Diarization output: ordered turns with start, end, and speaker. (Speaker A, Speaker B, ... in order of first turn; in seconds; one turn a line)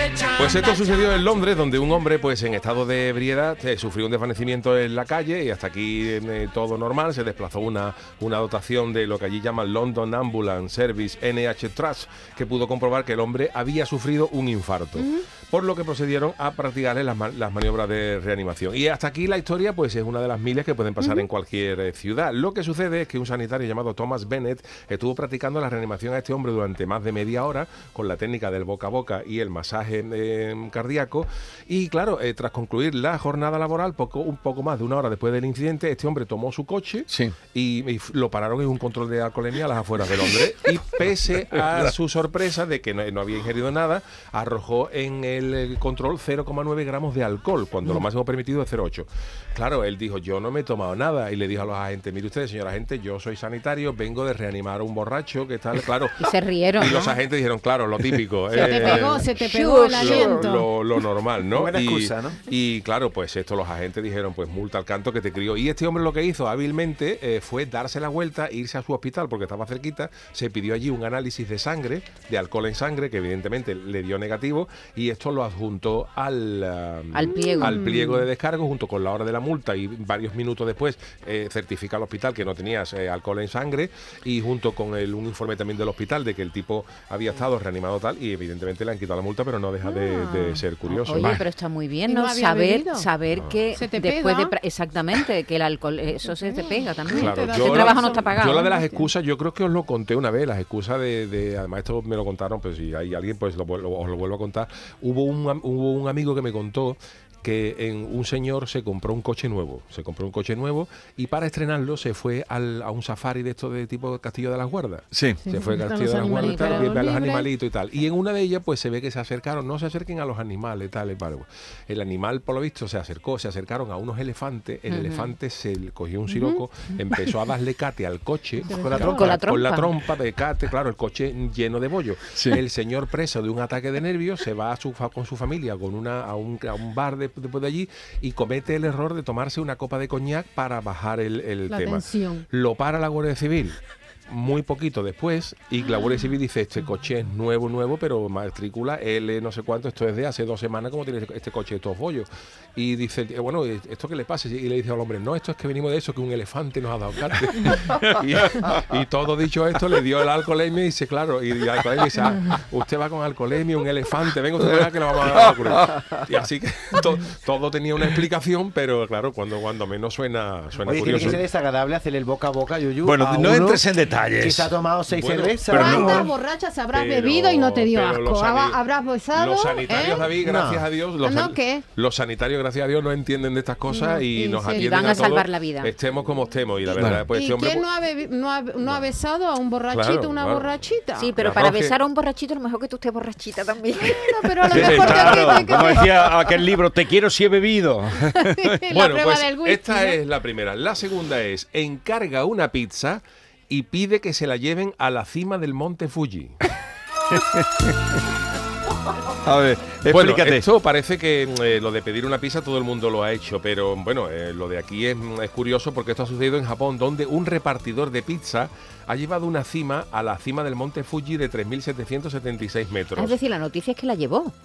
Speaker A: 0.3-56.2
Speaker B: 37.1-37.3
Speaker C: 56.2-57.2
Speaker A: 56.8-59.3
Speaker C: 58.5-60.3
Speaker D: 58.6-60.7
Speaker A: 60.0-91.4
Speaker E: 61.5-62.4
Speaker C: 77.1-77.9
Speaker D: 77.4-78.1
Speaker D: 89.8-90.7
Speaker C: 91.0-98.7
Speaker B: 91.1-91.4
Speaker D: 92.1-93.1
Speaker D: 93.8-94.5
Speaker D: 96.4-99.1
Speaker A: 97.1-171.4
Speaker B: 115.1-115.4
Speaker D: 115.5-117.5
Speaker C: 116.4-116.9
Speaker C: 124.9-125.3
Speaker D: 126.3-126.6
Speaker D: 128.7-129.1
Speaker E: 128.8-129.2
Speaker C: 128.9-129.9
Speaker B: 132.3-132.6
Speaker D: 141.7-142.4
Speaker B: 164.8-166.1
Speaker E: 170.8-173.9
Speaker B: 173.0-174.8
Speaker E: 174.4-176.3
Speaker A: 175.1-175.7
Speaker B: 175.7-176.3
Speaker D: 175.7-180.4
Speaker A: 176.9-187.9
Speaker E: 180.4-180.9
Speaker D: 181.2-181.8
Speaker D: 183.9-185.3
Speaker C: 184.7-185.9
Speaker B: 186.9-187.2
Speaker D: 187.3-191.4
Speaker A: 188.8-189.1
Speaker A: 189.9-190.9
Speaker C: 191.2-195.4
Speaker A: 191.4-192.0
Speaker D: 193.9-196.6
Speaker B: 194.7-198.8
Speaker A: 194.7-195.2
Speaker D: 198.4-200.2
Speaker A: 198.9-206.6
Speaker B: 207.3-207.9
Speaker B: 209.4-210.7
Speaker A: 210.1-223.4
Speaker C: 223.2-224.5